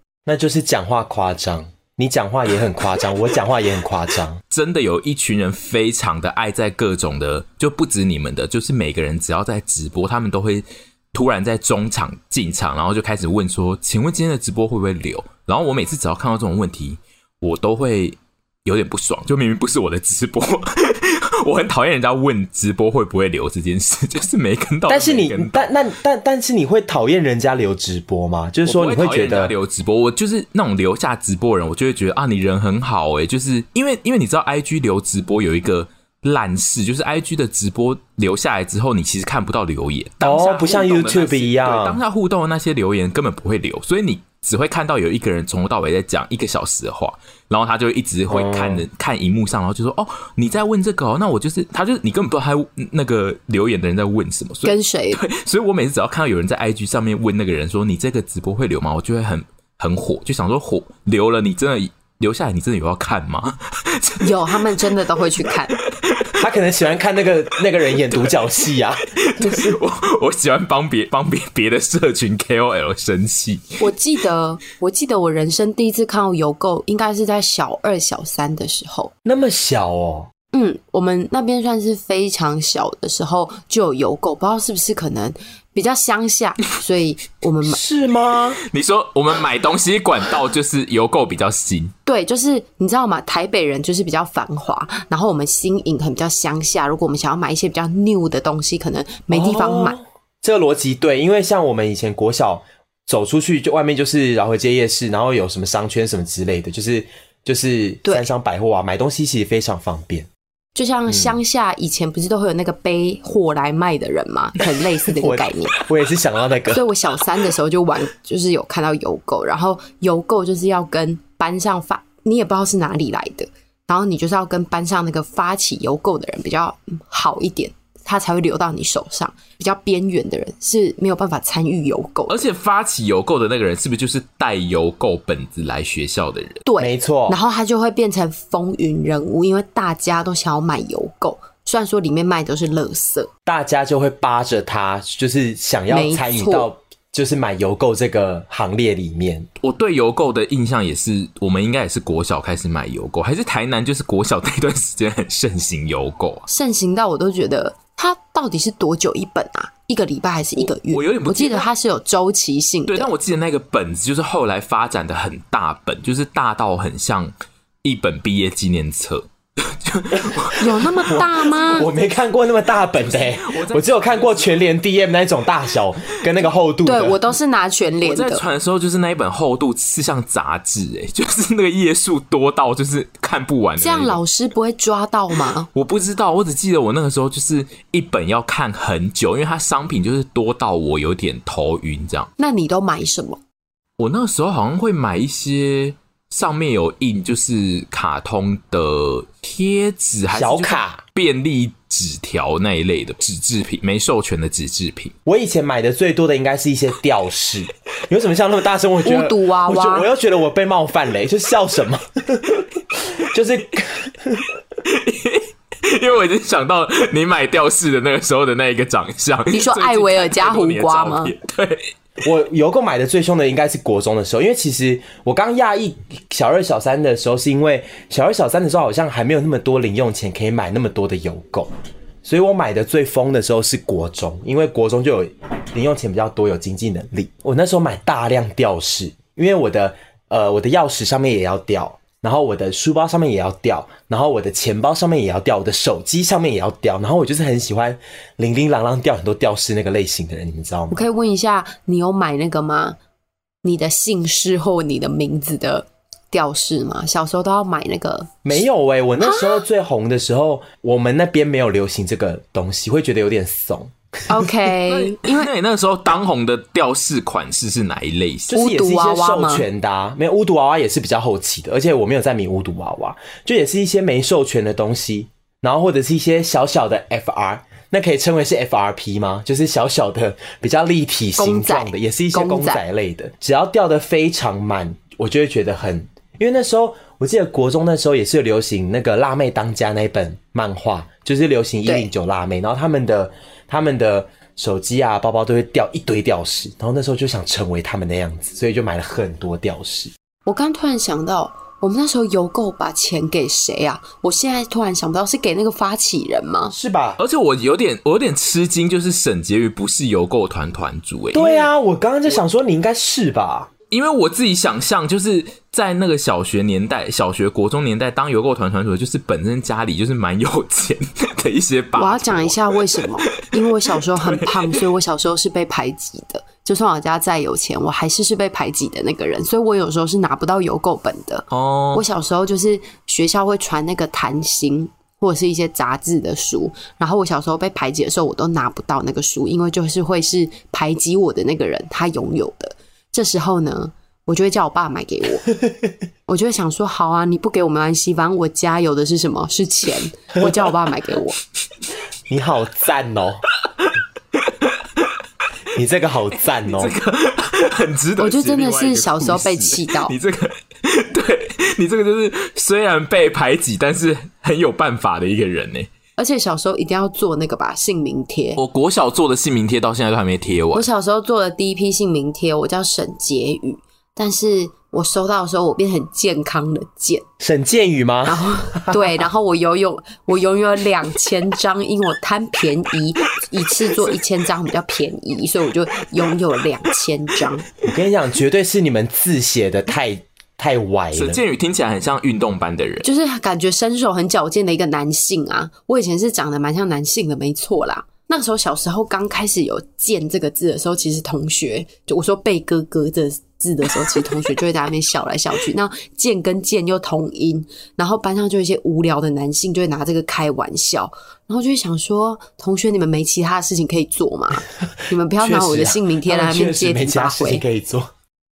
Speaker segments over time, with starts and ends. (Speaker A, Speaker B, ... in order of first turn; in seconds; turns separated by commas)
Speaker A: 0.2-4.4, Speaker B: 4.5-25.7, Speaker A: 24.9-29.5, Speaker B: 28.6-64.8, Speaker A: 40.2-42.0, Speaker A: 48.3-48.9, Speaker C: 54.6-55.2, Speaker C: 64.2-65.7, Speaker B: 65.7-66.5, Speaker A: 66.4-69.8, Speaker B: 67.8-73.9, Speaker C: 73.8-79.1, Speaker A: 79.2-80.3, Speaker C: 80.5-87.8, Speaker A: 87.6-88.6, Speaker B: 88.7-91.9, Speaker C: 92.0-100.0, Speaker A: 99.3-110.3, Speaker C: 108.0-108.3, Speaker C: 110.7-115.8, Speaker A: 111.1-111.4, Speaker A: 115.1-116.8, Speaker C: 116.7-132.4, Speaker B: 132.3-136.6, Speaker C: 136.6-143.3, Speaker A: 136.8-137.4, Speaker A: 143.5-149.5, Speaker C: 145.9-146.7, Speaker B: 149.6-156.4, Speaker C: 156.5-163.1, Speaker B: 160.6-161.7, Speaker B: 162.9-171.9, Speaker C: 170.6-171.9, Speaker A: 171.1-177.3, Speaker B: 172.8-174.7, Speaker C: 176.8-178.4, Speaker B: 178.0-184.2, Speaker C: 183.8-185.7, Speaker B: 185.3-192.3, Speaker C: 192.4-193.4, Speaker B: 194.0-205.1, Speaker A: 200.3-201.0, Speaker A: 205.2-214.5, Speaker C: 209.0-210.1, Speaker B: 214.8-221.9, Speaker C: 219.5-221.3, Speaker A: 222.2-231.7, Speaker A: 232.2-251.1, Speaker C: 250.9-253.0, Speaker C: 253.6-258.6, Speaker A: 258.4-264.5, Speaker C: 259.2-259.6, Speaker C: 264.3-265.5, Speaker B: 264.9-268.5, Speaker A: 268.5-300.1, Speaker C: 268.5-269.7, Speaker C: 281.4-282.8, Speaker C: 291.8-292.1, Speaker C: 300.4-306.8, Speaker A: 306.7-307.2, Speaker B: 307.2-311.7, Speaker A: 311.3-313.7, Speaker B: 313.9-324.8, Speaker C: 321.9-345.5, Speaker B: 331.5-332.1, Speaker C: 346.3-351.4, Speaker A: 350.4-350.7, Speaker A: 352.3-353.4, Speaker B: 353.8-355.1, Speaker A: 355.7-356.9, Speaker B: 356.4-365.9, Speaker C: 358.2-360.2, Speaker C: 366.2-368.6, Speaker B: 368.6-370.9, Speaker C: 370.7-377.2, Speaker A: 377.4-379.1, Speaker C: 378.2-387.6, Speaker A: 387.8-391.4, Speaker B: 391.1-393.1, Speaker C: 393.0-417.6, Speaker A: 415.4-418.1